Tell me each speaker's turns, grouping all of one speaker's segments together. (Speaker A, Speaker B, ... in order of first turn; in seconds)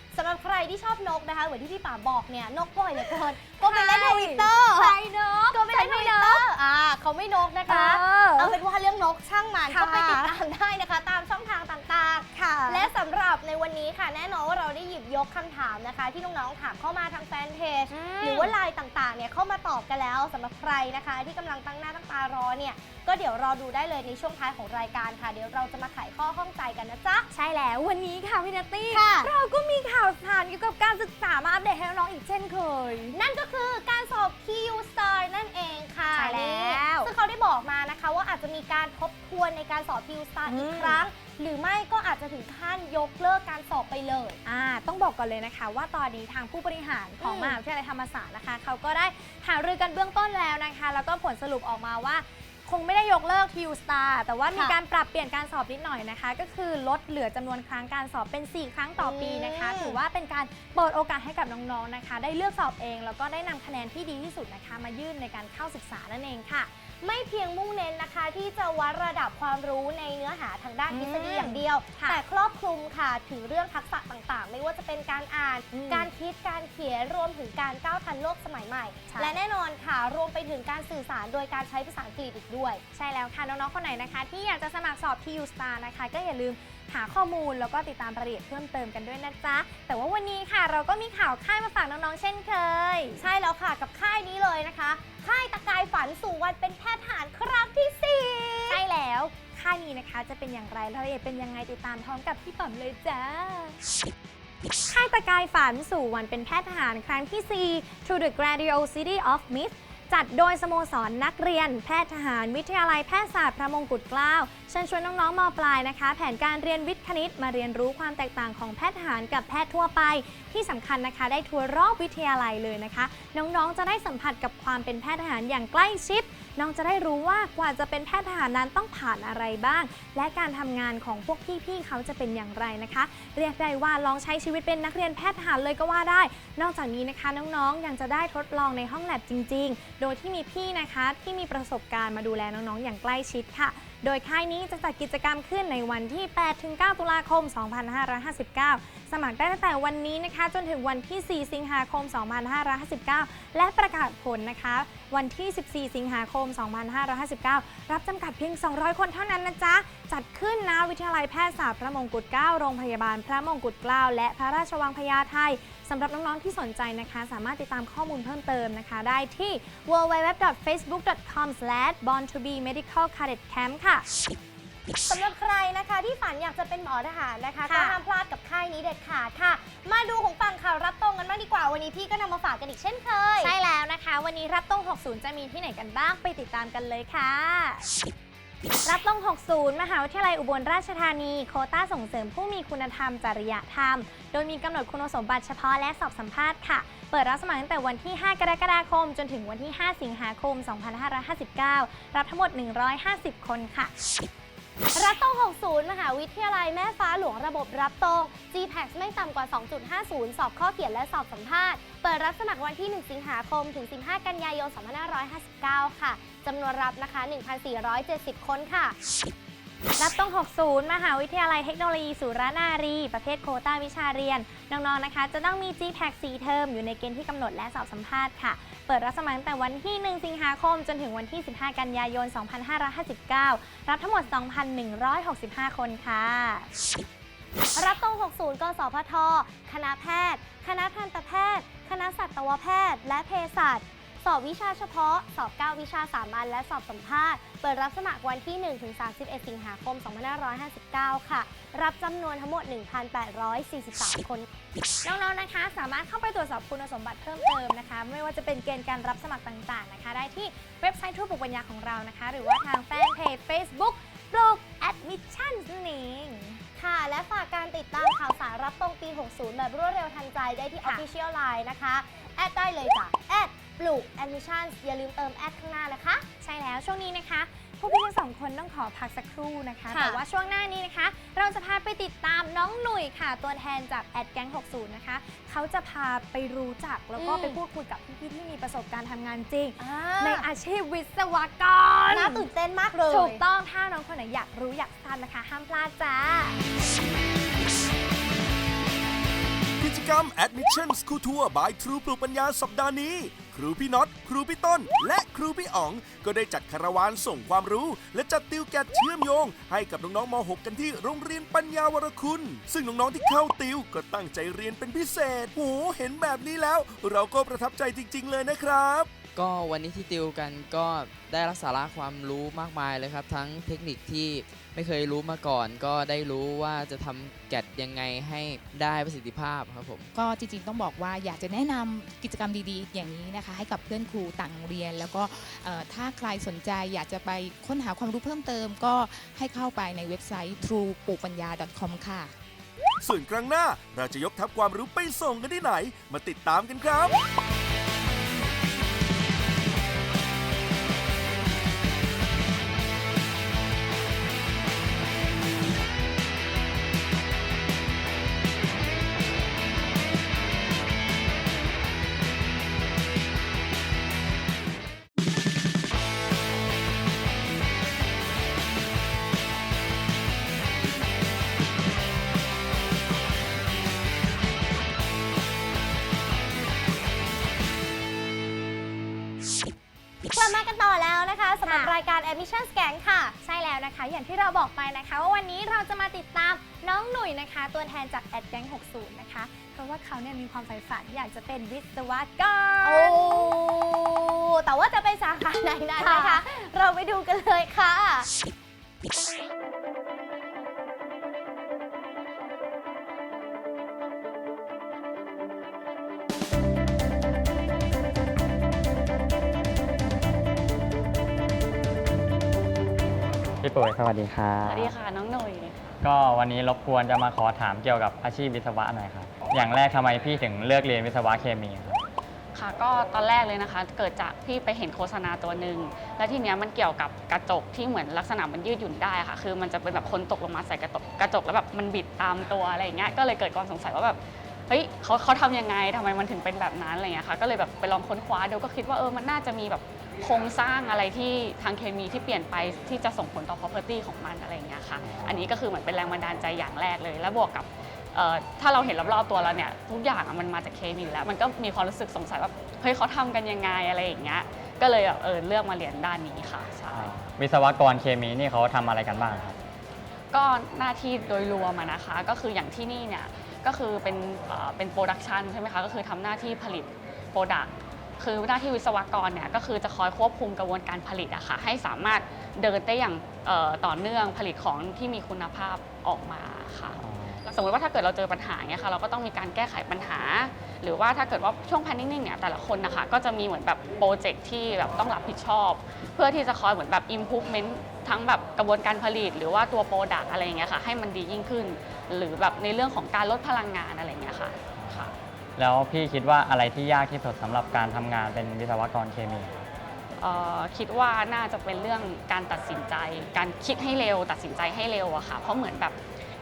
Speaker A: 0.1-5.0, 5.5-27.3, 28.9-29.3, 33.1-44.4, 47.2-47.6, 59.0-60.0, 67.0-82.8, 93.2-98.8, 175.1-183.5, 204.9-219.0, 237.8-254.5, 266.8-276.2, 279.9-280.2, 287.2-287.6, 289.8-290.4, 292.1-293.4, 380.3-383.4, 392.8-398.3
Speaker B: 3.0-6.5, 7.7-8.6, 9.7-10.3, 12.3-12.9, 17.9-18.5, 27.3-33.2, 36.1-37.1, 40.5-41.0, 44.5-66.7, 70.9-72.2, 75.7-76.1, 79.1-79.3, 82.9-93.2, 98.7-103.8, 104.9-174.1, 177.7-178.0, 183.4-187.9, 188.8-203.9, 220.0-236.7, 255.1-266.6, 276.4-292.4, 293.1-296.6, 381.6-381.9, 383.4-393.5, 396.0-396.4
Speaker C: 299.8-319.1, 343.0-347.2
Speaker D: 319.3-330.1
Speaker E: 330.1-342.3
Speaker F: 413.6-414.9, 416.0-422.0, 445.0-445.4, 456.9-459.6, 477.0-477.4, 494.8-499.6
Speaker G: 414.6-415.8, 422.6-457.2, 460.3-495.1, 500.2-506.0